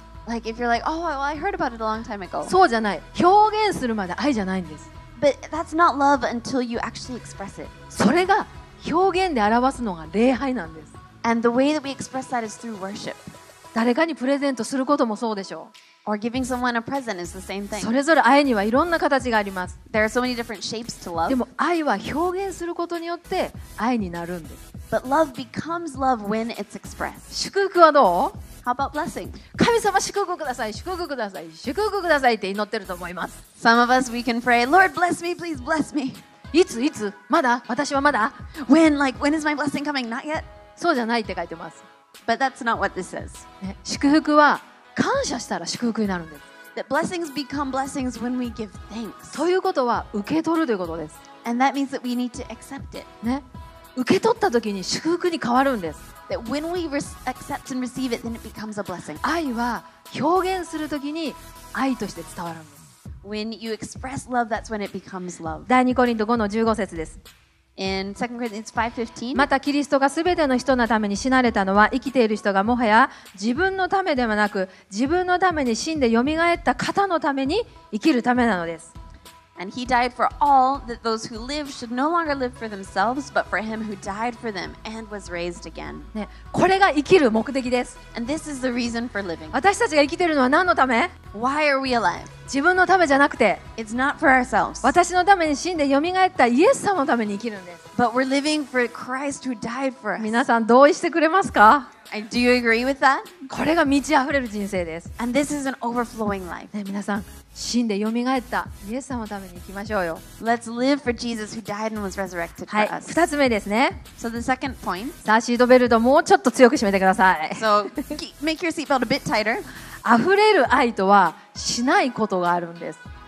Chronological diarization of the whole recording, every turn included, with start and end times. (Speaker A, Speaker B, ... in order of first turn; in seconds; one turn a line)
Speaker A: 0.2-2.5
Speaker B: 2.4-4.9
Speaker A: 5.2-7.7
Speaker B: 7.9-10.9
Speaker A: 11.2-13.3
Speaker B: 13.7-15.7
Speaker A: 16.0-17.9
Speaker B: 17.7-19.7
Speaker A: 19.9-21.4
Speaker B: 21.3-24.6
Speaker A: 24.9-27.3
Speaker B: 27.3-28.4
Speaker A: 28.6-29.4
Speaker B: 29.5-33.4
Speaker A: 33.6-36.2
Speaker B: 36.5-38.4
Speaker A: 38.6-40.5
Speaker B: 40.8-41.8
Speaker A: 42.2-43.5
Speaker B: 43.6-46.4
Speaker A: 46.7-49.5
Speaker B: 49.3-51.2
Speaker A: 51.4-53.1
Speaker B: 54.0-56.0
Speaker A: 56.3-59.2
Speaker B: 59.2-62.9
Speaker A: 63.2-65.7
Speaker B: 65.7-67.2
Speaker A: 67.8-69.5
Speaker B: 69.3-78.9
Speaker A: 79.6-86.1
Speaker B: 86.1-88.0
Speaker A: 88.1-89.6
Speaker B: 89.5-91.1
Speaker A: 91.3-92.3
Speaker B: 92.5-93.6
Speaker A: 93.8-94.9
Speaker B: 94.8-97.8
Speaker A: 97.9-100.4
Speaker B: 100.2-101.9
Speaker A: 102.1-103.3
Speaker B: 103.5-105.1
Speaker A: 105.2-106.7
Speaker B: 106.7-110.2
Speaker A: 110.4-113.2
Speaker B: 112.7-114.0
Speaker A: 114.2-115.2
Speaker B: 115.2-118.2
Speaker A: 117.5-119.7
Speaker B: 120.0-123.0